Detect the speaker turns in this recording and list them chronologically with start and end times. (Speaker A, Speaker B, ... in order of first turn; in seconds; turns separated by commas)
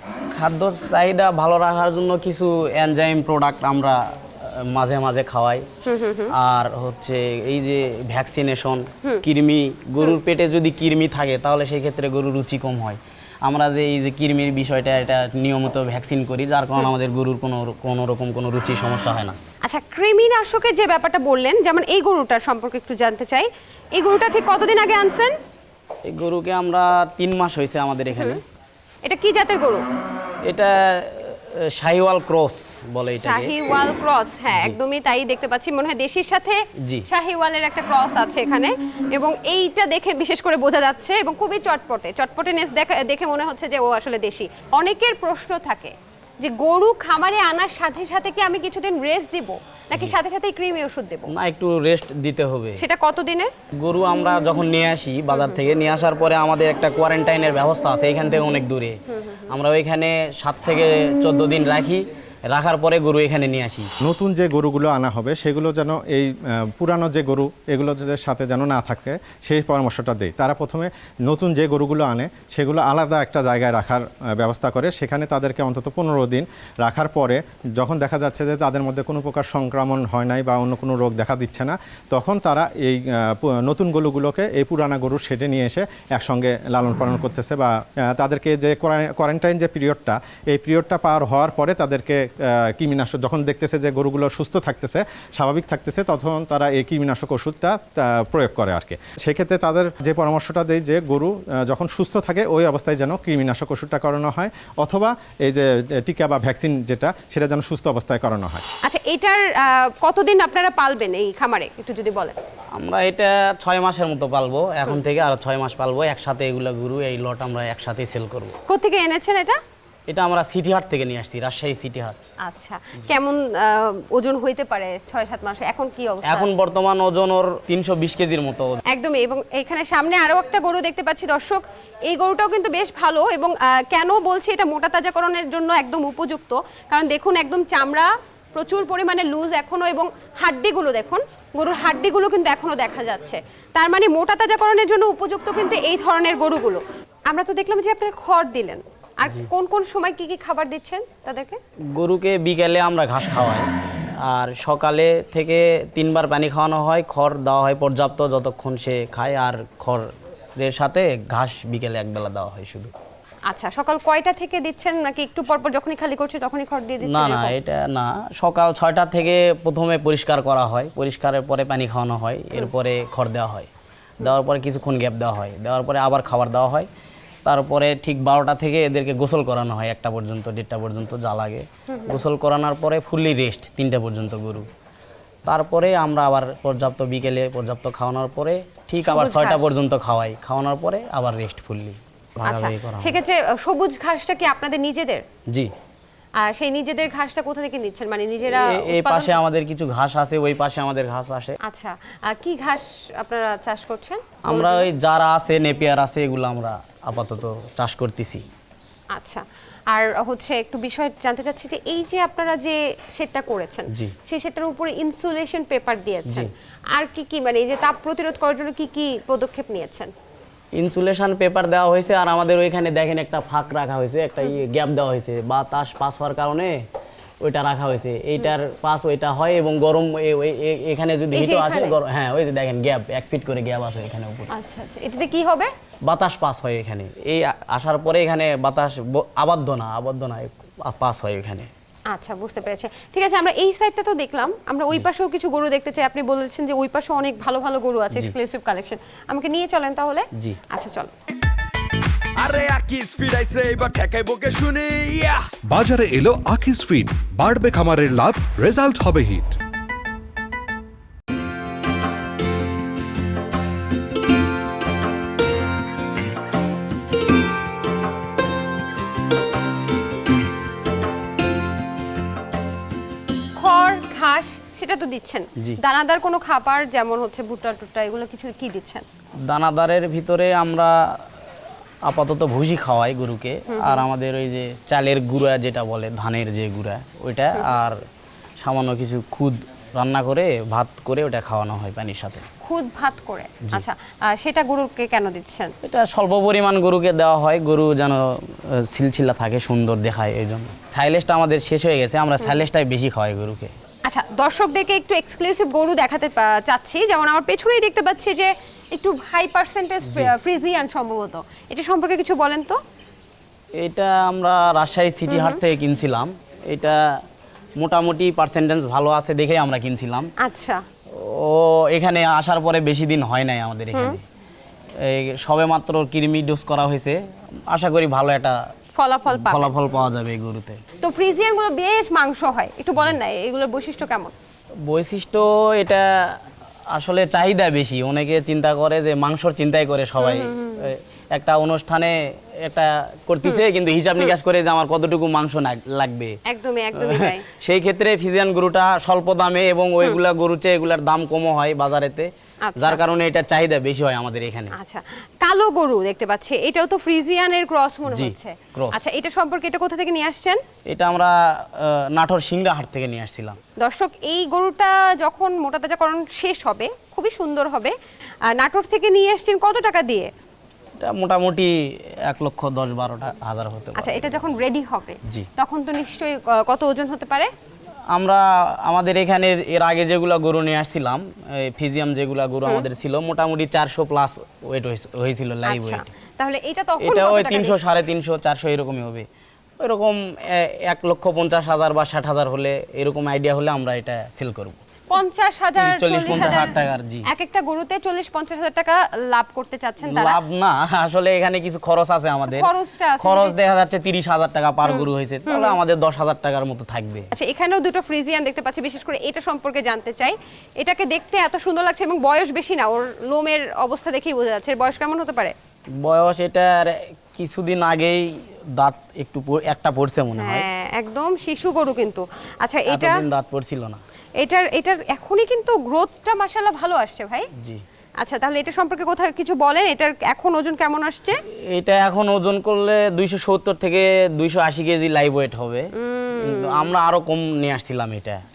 Speaker A: 0.3-5.7, Speaker B: 5.8-6.3, Speaker A: 6.3-19.4, Speaker B: 19.6-25.3, Speaker A: 26.0-28.4, Speaker B: 28.1-28.4, Speaker B: 29.0-29.8, Speaker A: 30.4-33.5, Speaker B: 33.1-51.3, Speaker A: 51.3-52.8, Speaker B: 52.8-53.5, Speaker A: 53.7-63.9, Speaker B: 55.3-55.6, Speaker C: 64.0-108.6, Speaker B: 108.8-112.3, Speaker A: 112.7-118.5, Speaker B: 118.7-119.6, Speaker A: 120.1-122.2, Speaker B: 122.4-126.5, Speaker A: 126.2-128.8, Speaker B: 128.9-151.6, Speaker A: 151.9-162.9, Speaker B: 163.5-167.6, Speaker A: 167.0-173.7, Speaker A: 174.2-176.9, Speaker A: 177.4-184.7, Speaker B: 181.9-182.2, Speaker A: 185.4-193.2, Speaker B: 189.0-189.8, Speaker B: 192.4-195.2, Speaker B: 196.4-199.4, Speaker A: 198.4-201.6, Speaker B: 201.6-204.9, Speaker A: 204.4-208.4, Speaker B: 209.1-220.1, Speaker A: 220.7-226.8, Speaker A: 227.4-234.5, Speaker B: 231.3-232.0, Speaker B: 234.5-235.7, Speaker A: 236.0-241.7, Speaker B: 242.1-251.1, Speaker D: 252.4-255.5, Speaker E: 255.7-259.5, Speaker B: 273.6-279.0, Speaker A: 279.4-281.2, Speaker A: 282.0-288.0, Speaker B: 283.7-284.1, Speaker A: 288.6-292.4, Speaker B: 292.6-295.7, Speaker A: 295.8-303.7, Speaker B: 304.1-312.8, Speaker A: 313.8-317.2, Speaker B: 315.3-315.6, Speaker A: 317.8-320.3, Speaker B: 320.4-320.8, Speaker A: 321.1-324.2, Speaker B: 323.9-324.2, Speaker A: 325.0-328.7, Speaker B: 328.9-329.7, Speaker A: 329.3-330.8, Speaker B: 331.0-334.3, Speaker A: 334.8-346.4, Speaker B: 340.2-340.9, Speaker B: 346.4-347.4, Speaker A: 347.0-354.7, Speaker B: 352.6-353.0, Speaker B: 354.7-360.6, Speaker A: 358.1-359.0, Speaker A: 360.9-363.6, Speaker B: 363.8-367.9, Speaker B: 368.5-370.3, Speaker A: 371.0-374.5, Speaker B: 373.9-377.5, Speaker A: 378.1-386.1, Speaker B: 385.7-387.8, Speaker A: 387.0-389.2, Speaker A: 389.8-394.8, Speaker B: 395.1-400.4, Speaker A: 395.8-397.3, Speaker A: 400.0-407.3, Speaker B: 402.5-403.6, Speaker B: 404.8-405.8, Speaker B: 407.3-415.5, Speaker A: 415.9-420.6, Speaker B: 420.4-423.2, Speaker A: 422.9-424.0, Speaker B: 424.4-427.5, Speaker B: 428.2-431.4, Speaker A: 431.7-435.9, Speaker B: 436.0-436.9, Speaker A: 436.4-438.4